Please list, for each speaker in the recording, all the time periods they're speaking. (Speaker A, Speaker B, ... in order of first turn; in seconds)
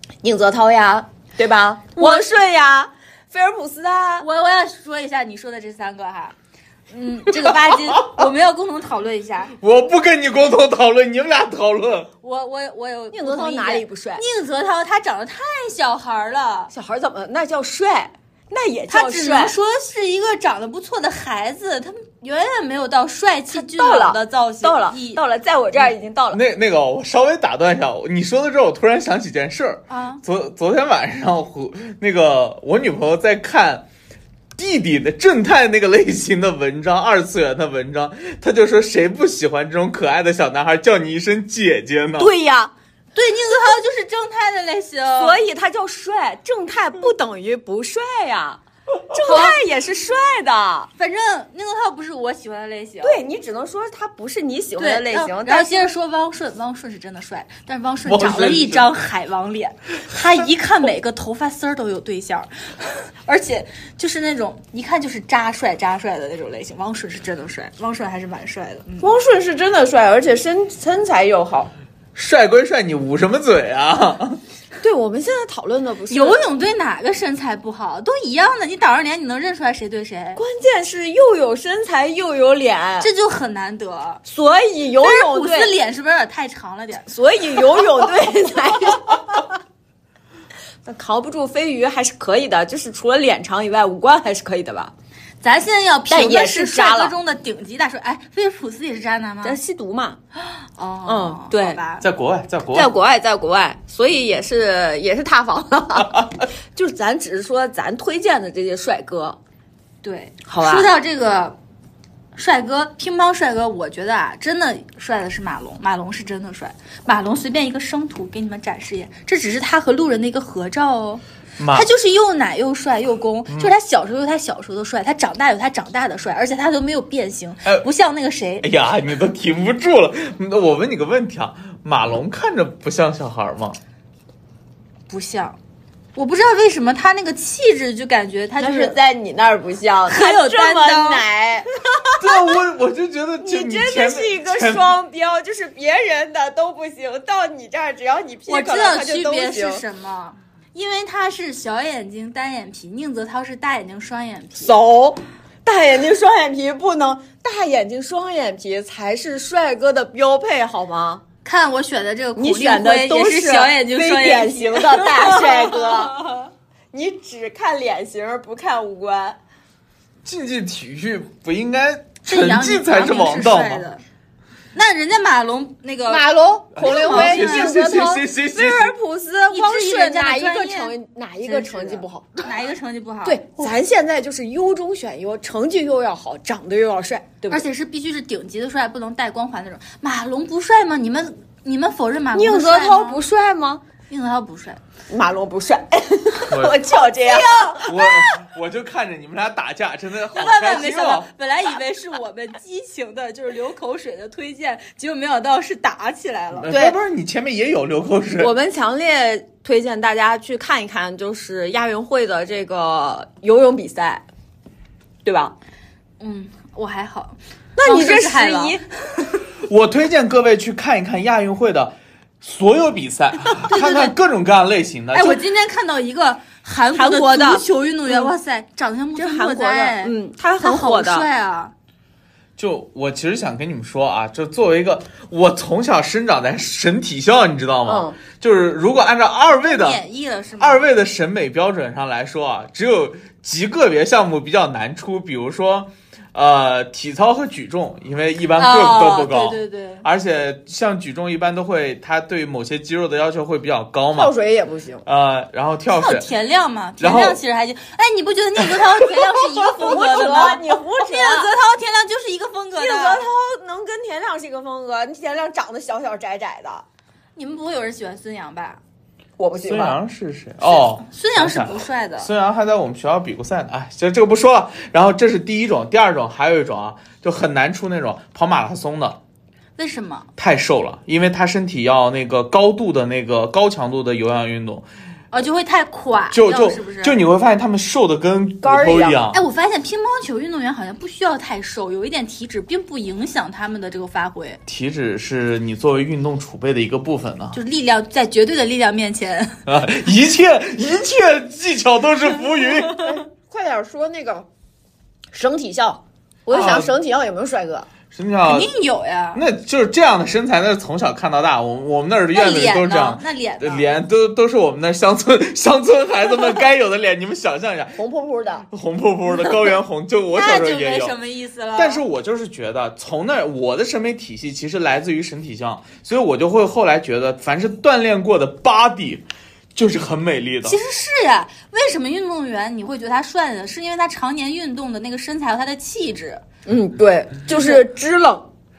Speaker A: 0.2-4.2, 13.1-14.2, 16.7-19.5, 23.5-26.4, 42.2-42.7, 45.1-48.6, 49.1-50.9, 53.0-55.8, 69.0-71.7, 74.8-76.4, 80.3-83.1, 84.2-85.7, 87.1-89.4, 90.8-94.9, 96.1-97.1, 99.4-100.2, 101.0-101.8, 102.7-109.4, 110.5-110.9, 138.6-142.1, 143.4-149.8, 154.6-161.2, 162.3-166.2, 166.9-169.4, 176.1-182.4, 183.2-187.6, 192.3-193.8, 195.1-197.9, 206.7-207.0, 208.4-214.2, 215.2-215.5, 217.8-218.8, 226.9-228.3, 229.2-231.3, 237.8-238.2, 254.1-255.0, 259.8-261.5, 262.8-266.8, 269.4-270.0, 288.6-289.2, 303.0-304.4, 305.3-307.9, 318.0-318.6, 336.6-338.5
Speaker B: 2.0-2.3, 4.2-6.3, 6.9-9.5, 12.2-16.7, 18.9-25.2, 29.9-30.2, 43.1-45.4, 49.3-49.6, 51.0-53.2, 54.8-69.1, 76.1-80.4, 83.0-84.2, 85.0-87.1, 95.4-99.6, 100.5-102.0, 110.0-111.5, 112.3-128.7, 135.1-135.6, 136.2-139.0, 140.1-141.2, 148.5-154.7, 161.4-166.4, 172.2-174.0, 174.7-176.2, 176.8-178.1, 179.5-180.9, 181.4-183.5, 187.5-193.2, 194.1-194.8, 197.2-197.8, 200.3-206.7, 216.2-219.4, 223.7-224.1, 225.1-231.7, 239.6-240.8, 248.6-250.0, 255.9-263.2, 267.4-268.8, 270.6-272.3, 279.8-280.3, 285.3-287.2, 289.3-294.6, 297.5-299.6, 308.5-309.4, 312.3-313.9, 320.3-322.0, 330.6-336.4, 337.5-337.8
Speaker C: 7.5-8.2, 9.6-12.1, 26.3-33.9, 34.6-42.3, 58.0-58.9, 72.1-74.4, 102.0-102.9, 121.6-121.9, 128.6-133.8, 142.2-144.9, 170.2-173.8, 176.8-178.9, 196.5-196.8, 197.8-201.3, 206.6-208.5, 219.6-225.4, 232.6-240.0, 240.6-254.3, 255.1-256.3, 257.0-257.4, 269.6-279.2, 280.4-284.9, 286.3-289.4, 294.6-297.6, 299.6-303.1, 306.5-306.9, 308.1-308.7, 309.3-318.0, 318.7-321.1, 321.8-329.2, 329.7-330.8